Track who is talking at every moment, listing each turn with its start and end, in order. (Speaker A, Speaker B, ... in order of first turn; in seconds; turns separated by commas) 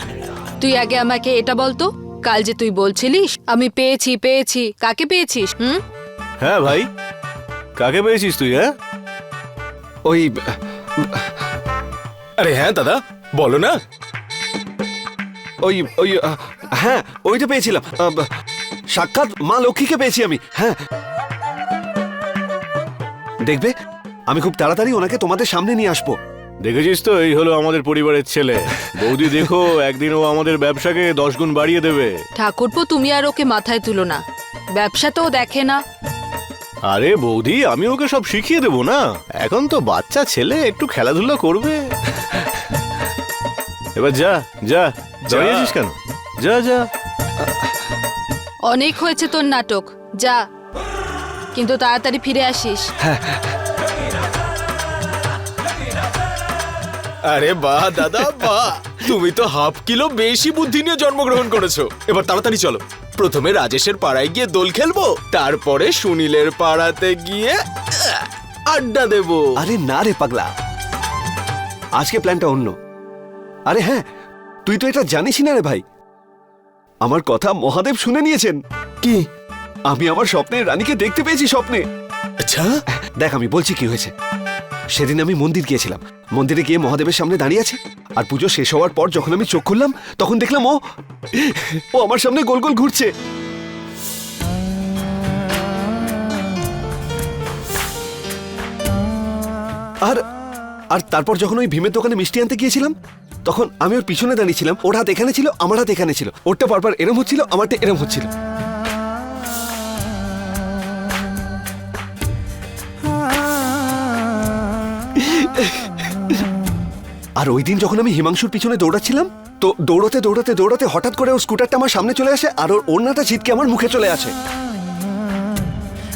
Speaker A: 0.6-5.8, Speaker B: 6.4-6.9, Speaker B: 7.8-8.8, Speaker C: 10.1-11.2, Speaker D: 12.4-13.8, Speaker C: 15.6-18.2, Speaker C: 18.9-20.8, Speaker C: 23.4-23.7, Speaker C: 24.3-26.2, Speaker B: 26.6-32.2, Speaker A: 32.3-34.2, Speaker A: 34.7-35.8, Speaker B: 36.8-41.9, Speaker B: 44.0-46.9, Speaker D: 45.3-45.5, Speaker A: 48.7-50.4, Speaker A: 51.5-52.9, Speaker C: 53.0-53.4, Speaker D: 57.3-67.6, Speaker D: 68.7-69.4, Speaker C: 69.6-70.5, Speaker C: 72.0-72.7, Speaker C: 73.7-74.0, Speaker C: 74.7-75.8, Speaker C: 77.0-78.6, Speaker C: 79.9-81.8, Speaker D: 82.4-82.7, Speaker C: 83.2-84.1, Speaker C: 84.9-90.8, Speaker C: 91.4-93.1, Speaker C: 100.9-102.9, Speaker C: 103.5-108.3, Speaker C: 115.2-115.9, Speaker C: 117.4-124.3